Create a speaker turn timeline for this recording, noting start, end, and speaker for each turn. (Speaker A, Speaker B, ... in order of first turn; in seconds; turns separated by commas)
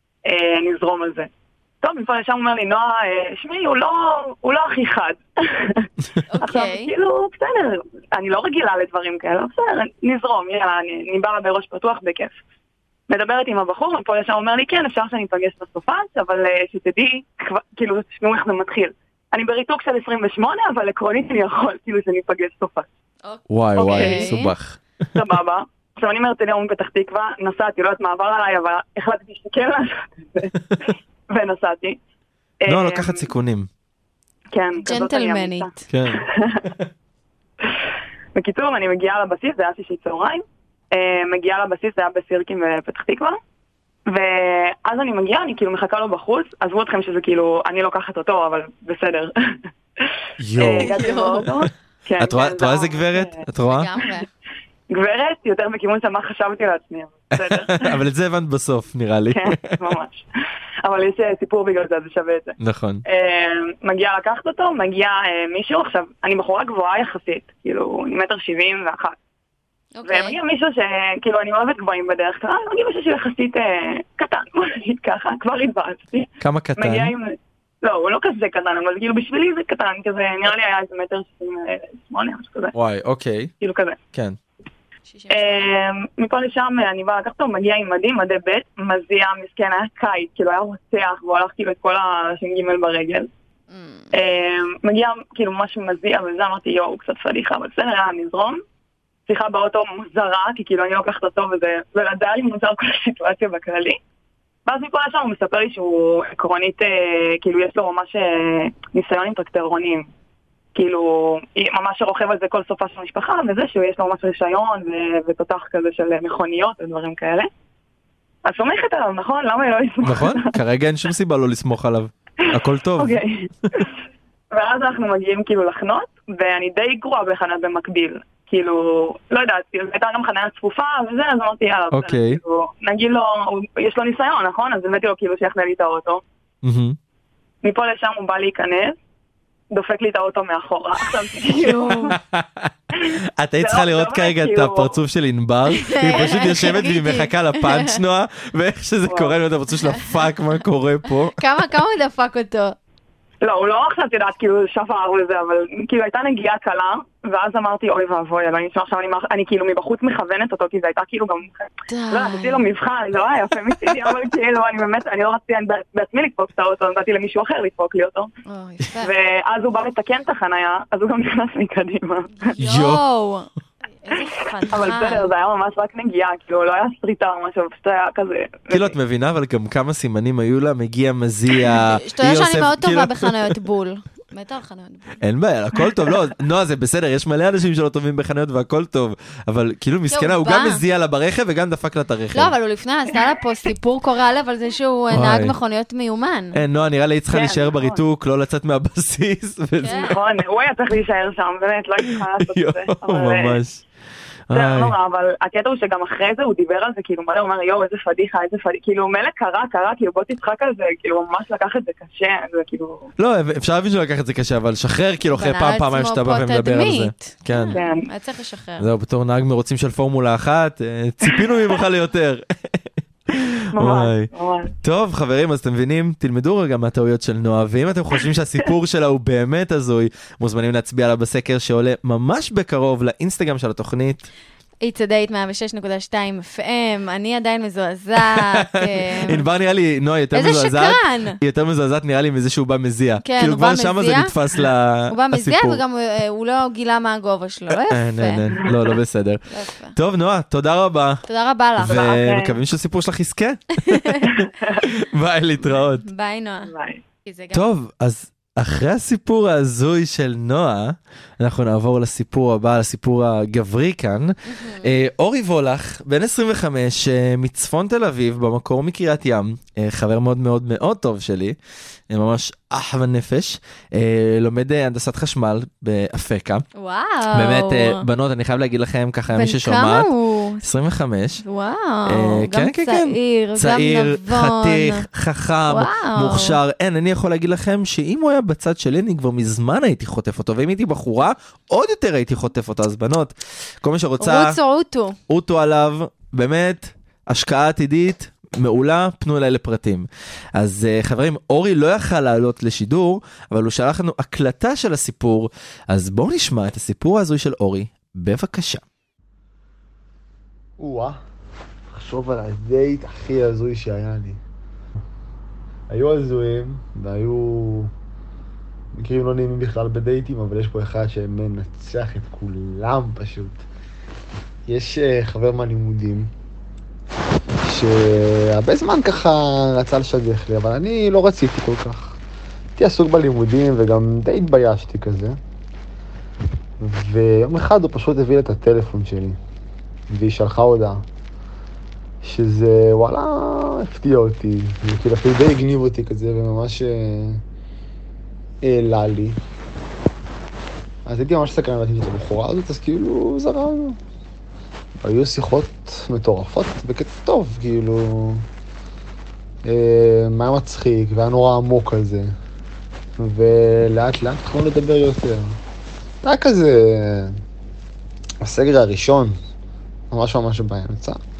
Speaker A: 0.2-1.3, Speaker A: 1.8-5.9, Speaker B: 6.3-6.9, Speaker A: 6.4-12.4, Speaker A: 13.1-22.9, Speaker B: 23.2-24.5, Speaker C: 23.5-24.8, Speaker A: 23.8-24.4, Speaker A: 25.1-32.0, Speaker A: 32.6-33.3, Speaker C: 32.7-33.7, Speaker A: 34.5-36.7, Speaker B: 34.8-35.8, Speaker C: 35.9-36.7, Speaker A: 38.4-43.4, Speaker A: 44.1-50.0, Speaker C: 50.4-53.9, Speaker A: 50.6-53.4, Speaker B: 50.8-51.5, Speaker B: 53.6-54.3, Speaker A: 54.9-58.0, Speaker C: 57.4-59.8, Speaker A: 59.3-60.2, Speaker A: 60.8-69.2, Speaker C: 62.6-63.0, Speaker B: 70.0-70.4, Speaker A: 70.0-82.7, Speaker C: 76.4-77.2, Speaker C: 82.7-83.5, Speaker A: 83.6-84.0, Speaker C: 84.1-84.4, Speaker B: 85.1-85.7, Speaker A: 85.3-93.3, Speaker B: 93.7-94.1, Speaker A: 94.1-98.6, Speaker A: 99.3-104.0, Speaker A: 104.7-110.1, Speaker A: 110.8-117.5, Speaker A: 118.5-120.6, Speaker C: 120.0-123.2, Speaker A: 122.5-123.9, Speaker A: 124.5-136.2, Speaker C: 131.9-132.4, Speaker C: 136.6-137.0, Speaker A: 137.6-139.0, Speaker A: 139.7-142.2, Speaker B: 141.4-142.2, Speaker C: 142.1-151.4, Speaker A: 143.6-145.0, Speaker B: 145.8-148.0, Speaker A: 149.1-149.3, Speaker B: 149.8-150.1, Speaker B: 151.4-152.8, Speaker A: 153.4-168.3, Speaker B: 161.9-162.7, Speaker B: 168.5-169.1, Speaker A: 169.0-172.6, Speaker B: 172.4-173.5, Speaker C: 172.6-173.0, Speaker B: 174.0-175.3, Speaker A: 174.7-178.9, Speaker C: 178.7-183.6, Speaker B: 181.8-185.2, Speaker C: 185.2-192.5, Speaker B: 190.1-190.8, Speaker B: 192.3-196.6, Speaker C: 195.1-195.6, Speaker C: 196.5-200.3, Speaker A: 197.3-198.0, Speaker B: 199.8-200.1, Speaker A: 199.9-203.6, Speaker C: 202.0-203.8, Speaker C: 204.5-204.9, Speaker A: 204.5-213.1, Speaker C: 213.2-217.8, Speaker B: 215.3-218.9, Speaker A: 217.7-218.1, Speaker C: 218.8-224.3, Speaker A: 223.7-224.7, Speaker C: 224.8-234.3, Speaker B: 234.8-239.4, Speaker C: 238.3-245.8, Speaker B: 240.3-241.4, Speaker B: 243.2-244.3, Speaker B: 245.1-248.7, Speaker C: 247.7-249.4, Speaker B: 249.5-249.9, Speaker C: 249.9-251.2, Speaker B: 251.3-252.0, Speaker C: 251.8-256.1, Speaker A: 251.9-252.6, Speaker B: 253.9-254.3, Speaker A: 254.3-254.9, Speaker B: 256.1-256.7, Speaker A: 256.6-257.0, Speaker B: 257.3-257.6, Speaker C: 257.5-271.6, Speaker B: 264.5-264.9, Speaker C: 272.1-276.6, Speaker B: 276.8-278.1, Speaker C: 277.3-281.4, Speaker B: 279.3-280.6, Speaker B: 281.4-285.1, Speaker C: 282.1-294.6, Speaker B: 285.7-286.6, Speaker B: 294.2-295.2, Speaker C: 295.3-308.8, Speaker D: 310.8-311.2, Speaker D: 311.9-314.4, Speaker D: 315.9-317.9, Speaker D: 319.0-323.6, Speaker D: 324.7-326.3, Speaker D: 327.6-332.2, Speaker D: 332.8-335.4, Speaker D: 336.8-339.4, Speaker D: 340.1-341.0, Speaker D: 342.2-347.4, Speaker D: 348.6-349.4, Speaker D: 351.1-354.0, Speaker D: 355.0-358.5, Speaker D: 359.6-362.3, Speaker D: 363.2-365.6, Speaker D: 366.2-367.4, Speaker D: 368.4-369.4, Speaker D: 370.1-371.2